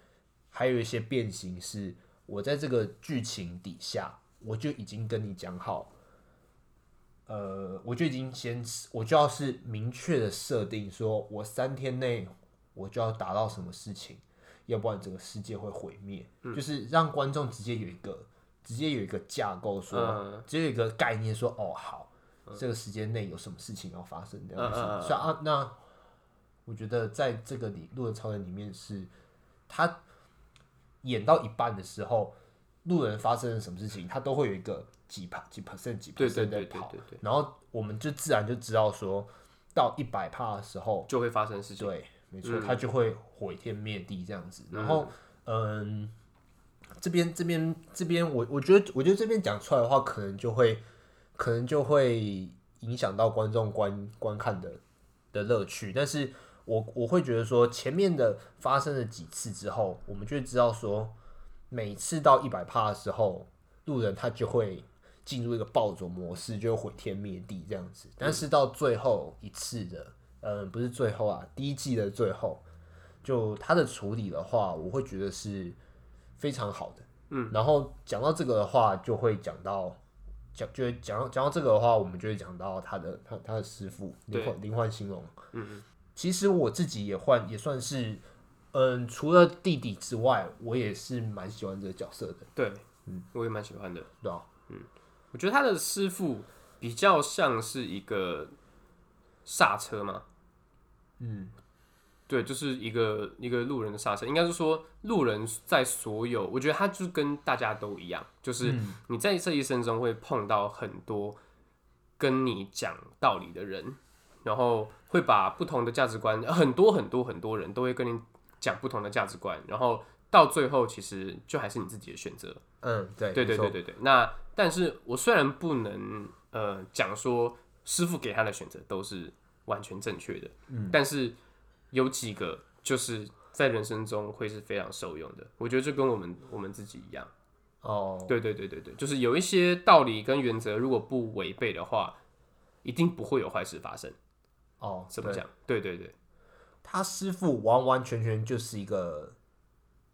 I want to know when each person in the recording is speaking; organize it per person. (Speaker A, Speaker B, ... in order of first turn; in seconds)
Speaker A: 0.5-5.9, 7.3-25.8, 26.7-29.1, 29.7-30.0, 31.0-41.1, 41.8-46.1, 47.0-50.8, 51.4-54.8, 55.3-61.1, 61.7-72.7, 73.2-75.8, 76.4-80.0, 80.5-85.4, 86.2-92.5, 94.2-94.5, 101.2-101.5, 108.6-109.0, 122.8-123.8, 130.7-131.0, 137.8-138.3, 144.8-145.4, 146.8-149.4
Speaker B: 19.9-20.5, 24.6-25.3, 36.2-37.2, 41.1-42.9, 44.7-45.1, 77.3-77.6, 85.5-85.8, 92.6-94.1, 94.7-98.5, 99.5-100.2, 102.3-111.4, 112.2-122.6, 123.3-131.4, 131.9-137.3, 138.3-142.2, 142.8-144.2, 145.1-146.2